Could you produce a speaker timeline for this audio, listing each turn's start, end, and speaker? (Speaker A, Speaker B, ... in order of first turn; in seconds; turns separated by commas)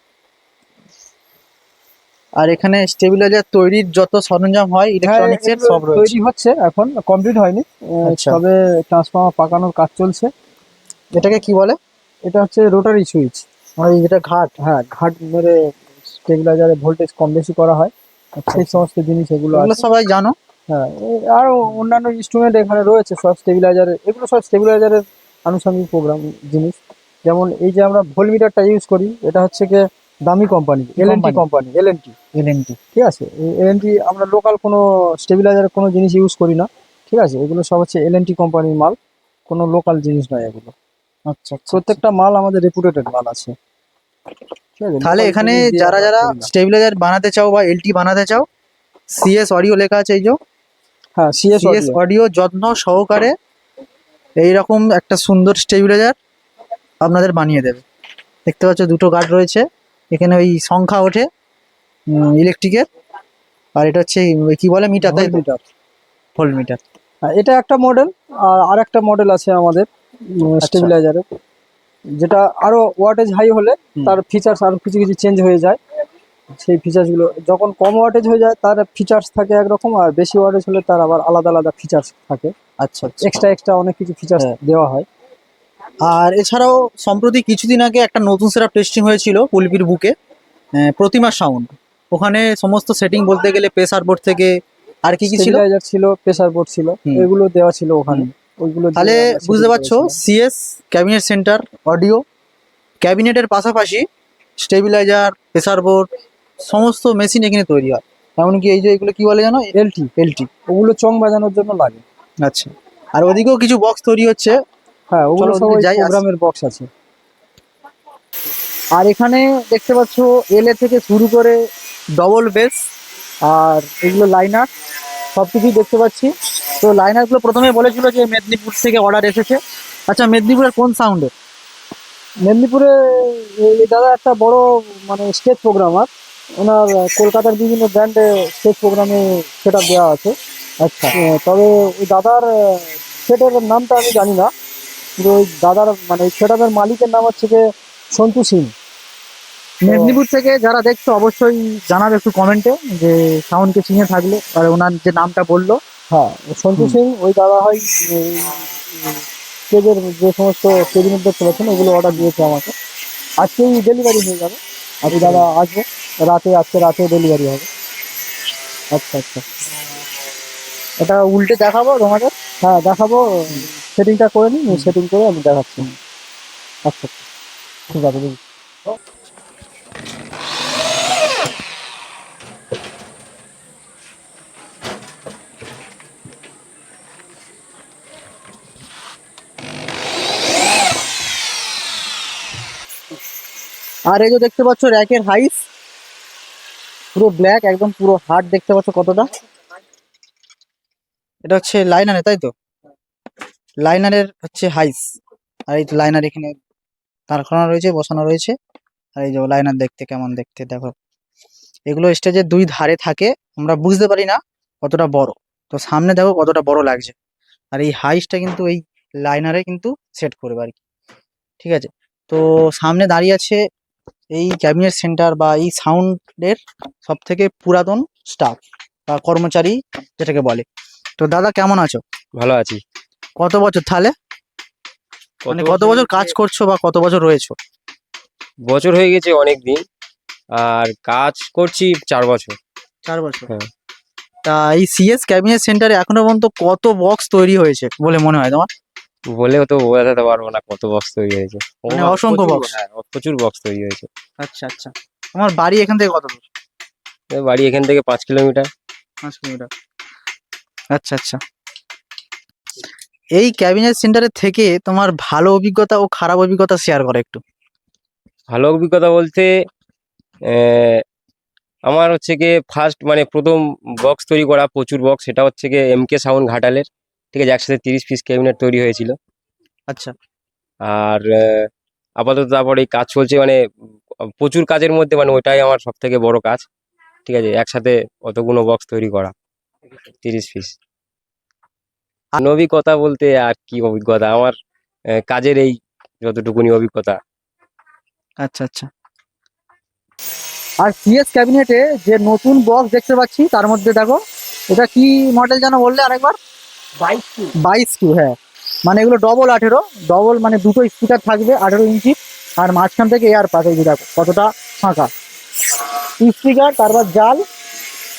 Speaker A: 2.4-6.1, Speaker B: 5.0-10.3, Speaker A: 8.0-8.4, Speaker A: 11.1-11.8, Speaker B: 12.3-13.4, Speaker A: 13.8-14.5, Speaker B: 14.6-17.9, Speaker A: 18.4-18.8, Speaker B: 18.5-19.8, Speaker A: 19.5-20.3, Speaker B: 20.7-32.1, Speaker A: 31.0-31.4, Speaker A: 32.3-32.8, Speaker B: 32.9-39.0, Speaker B: 39.5-40.7, Speaker A: 41.3-42.0, Speaker B: 41.7-43.5, Speaker B: 44.8-46.5, Speaker A: 45.0-48.5, Speaker A: 49.1-50.4, Speaker B: 51.2-52.0, Speaker A: 51.6-53.3, Speaker A: 54.4-56.1, Speaker A: 57.0-57.8, Speaker A: 58.5-61.3, Speaker A: 62.1-62.8, Speaker A: 63.8-65.4, Speaker B: 65.0-65.6, Speaker A: 66.3-66.8, Speaker B: 67.2-69.9, Speaker B: 70.4-71.2, Speaker A: 70.6-70.9, Speaker B: 72.2-75.8, Speaker B: 76.5-82.5, Speaker A: 82.8-83.4, Speaker B: 83.2-85.0, Speaker A: 86.0-90.1, Speaker A: 90.8-94.5, Speaker A: 95.1-95.6, Speaker B: 95.3-100.2, Speaker A: 99.0-102.2, Speaker A: 103.0-104.0, Speaker A: 104.6-106.0, Speaker A: 106.6-110.5, Speaker B: 109.7-110.1, Speaker B: 110.7-112.0, Speaker A: 112.4-114.5, Speaker B: 115.1-116.9, Speaker A: 115.4-116.2, Speaker A: 119.0-121.5, Speaker A: 122.2-122.8, Speaker A: 123.4-124.7, Speaker A: 125.3-129.6, Speaker A: 130.1-131.3, Speaker B: 132.4-140.3, Speaker A: 140.8-141.1, Speaker B: 141.1-144.5, Speaker B: 145.2-148.7, Speaker A: 149.8-155.8, Speaker B: 149.9-150.2, Speaker B: 156.1-162.7, Speaker B: 163.4-167.7, Speaker A: 165.1-165.4, Speaker A: 168.9-169.4, Speaker A: 171.0-172.3, Speaker B: 172.6-175.9, Speaker B: 177.9-178.4, Speaker A: 194.1-195.6, Speaker A: 197.1-199.3, Speaker A: 201.4-202.5, Speaker A: 203.8-205.0, Speaker A: 205.7-206.6, Speaker A: 207.3-208.5, Speaker A: 209.2-210.9, Speaker A: 211.9-217.1, Speaker A: 217.7-220.8, Speaker A: 221.6-223.6, Speaker A: 224.3-230.6, Speaker A: 231.2-232.0, Speaker C: 232.4-232.8, Speaker A: 233.4-234.1, Speaker C: 235.4-236.3, Speaker A: 235.5-237.6, Speaker C: 238.7-239.8, Speaker C: 240.6-242.6, Speaker A: 243.0-243.5, Speaker A: 244.4-248.7, Speaker C: 249.3-254.1, Speaker A: 251.9-252.7, Speaker A: 254.4-256.4, Speaker C: 257.3-258.7, Speaker A: 259.2-259.7, Speaker A: 260.9-261.4, Speaker A: 263.4-267.4, Speaker C: 268.5-269.5, Speaker C: 270.5-271.0, Speaker C: 271.9-279.1, Speaker C: 280.8-281.6, Speaker C: 282.2-283.6, Speaker C: 284.4-286.6, Speaker C: 287.2-289.3, Speaker C: 290.2-290.7, Speaker C: 292.4-294.5, Speaker C: 295.2-297.2, Speaker A: 298.4-298.9, Speaker A: 300.8-304.2, Speaker A: 304.7-306.4, Speaker A: 307.0-308.3, Speaker A: 308.9-315.1, Speaker A: 316.2-317.4